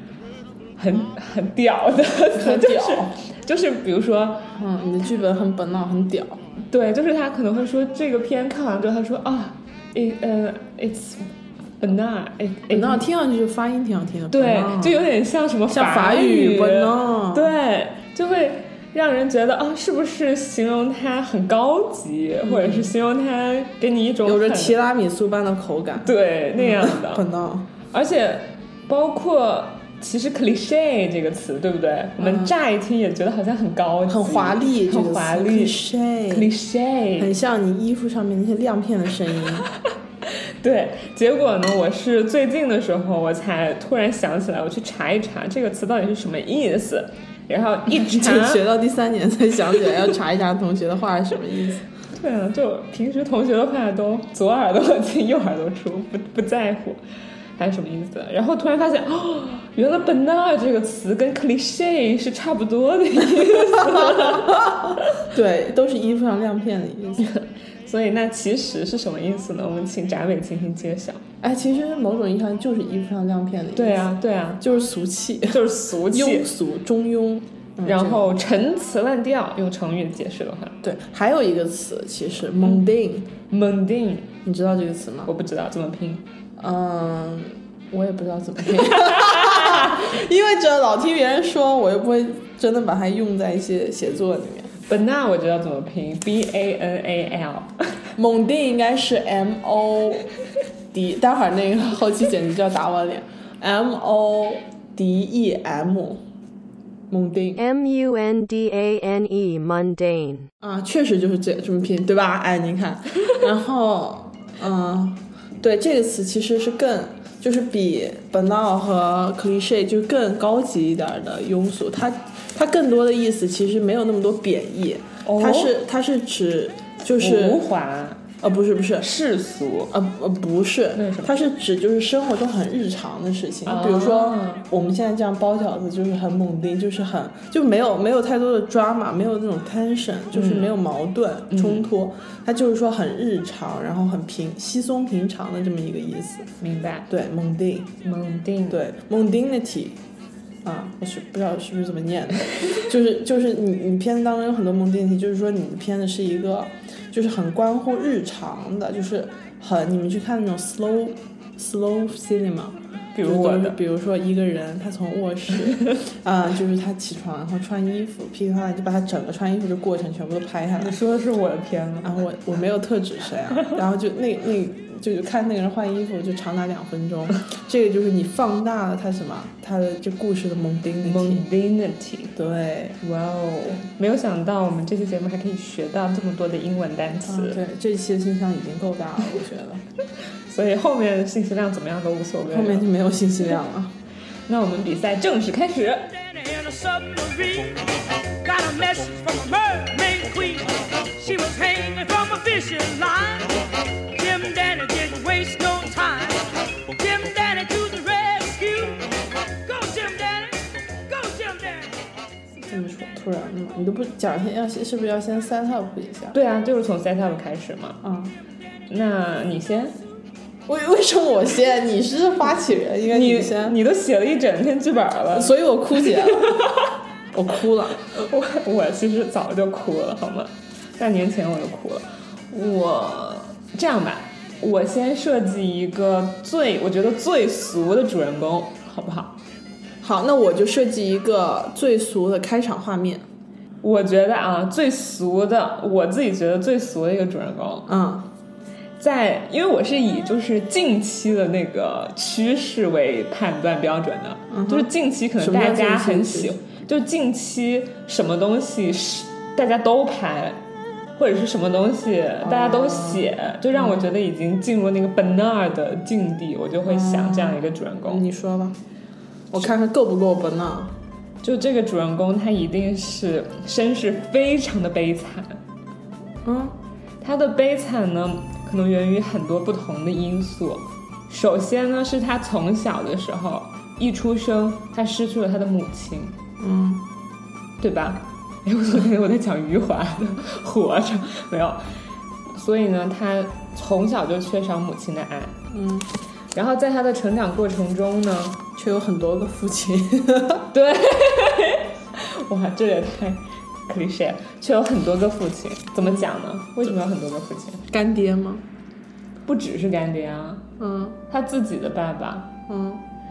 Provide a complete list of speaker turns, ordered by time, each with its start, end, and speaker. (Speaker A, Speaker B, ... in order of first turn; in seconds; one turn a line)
Speaker A: 0.8-4.5
Speaker B: 2.3-3.1
Speaker B: 4.5-6.4
Speaker A: 6.6-13.0
Speaker B: 12.7-15.1
Speaker A: 14.3-24.8
Speaker B: 15.7-17.5
Speaker B: 22.4-22.9
Speaker B: 24.2-27.7
Speaker A: 26.0-27.2
Speaker A: 27.9-37.3
Speaker B: 32.2-32.5
Speaker B: 34.1-36.5
Speaker B: 37.2-39.7
Speaker A: 40.2-48.6
Speaker B: 47.9-51.8
Speaker A: 52.1-57.0
Speaker A: 57.6-65.2
Speaker B: 63.9-67.3
Speaker A: 67.2-71.2
Speaker B: 71.4-78.3
Speaker A: 73.8-74.6
Speaker A: 75.5-76.5
Speaker A: 77.8-80.8
Speaker B: 80.8-83.3
Speaker A: 83.5-84.3
Speaker B: 84.4-85.3
Speaker A: 85.2-86.2
Speaker B: 86.6-94.7
Speaker A: 88.8-90.0
Speaker A: 94.9-98.0
Speaker B: 98.2-100.3
Speaker B: 100.9-106.2
Speaker B: 107.1-107.6
Speaker C: 107.6-110.5
Speaker B: 110.6-127.6
Speaker A: 125.2-125.8
Speaker A: 127.2-128.2
Speaker B: 128.4-129.1
Speaker A: 129.0-129.9
Speaker B: 129.9-146.5
Speaker A: 130.9-131.4
Speaker A: 133.7-134.7
Speaker A: 140.3-140.8
Speaker A: 141.5-141.9
Speaker A: 146.6-147.1
Speaker B: 147.1-147.9
Speaker A: 148.0-148.8
Speaker B: 148.7-150.0
Speaker B: 150.6-170.9
Speaker A: 163.1-163.8
Speaker A: 170.8-172.1
Speaker B: 172.0-181.5
Speaker A: 181.0-182.4
Speaker B: 182.4-183.0
Speaker A: 183.0-187.6
Speaker B: 187.2-189.8
Speaker A: 190.5-192.9
Speaker B: 192.5-193.9
Speaker A: 194.5-196.1
Speaker D: 196.1-212.0
Speaker B: 212.7-216.4
Speaker A: 216.3-218.0
Speaker B: 218.0-218.3
Speaker A: 218.9-219.9
Speaker B: 220.7-223.8
Speaker A: 223.1-226.9
Speaker B: 225.3-226.7
Speaker B: 227.3-228.1
Speaker A: 228.1-239.4
Speaker B: 240.0-243.2
Speaker A: 243.8-247.9
Speaker B: 247.9-248.3
Speaker A: 249.0-260.6
Speaker B: 254.5-256.6
Speaker A: 261.2-268.2
Speaker B: 262.4-264.1
Speaker B: 266.9-268.8
Speaker B: 269.5-270.9
Speaker A: 271.4-275.6
Speaker B: 276.4-276.8
Speaker A: 277.2-286.4
Speaker B: 286.6-287.1
Speaker A: 287.8-291.8
Speaker A: 292.5-295.6
Speaker B: 295.7-296.1
Speaker A: 296.5-298.6
Speaker B: 298.8-300.7
Speaker A: 300.7-307.8
Speaker B: 307.9-308.6
Speaker A: 309.4-310.6
Speaker B: 310.8-311.2
Speaker A: 311.3-312.5
Speaker B: 312.7-313.0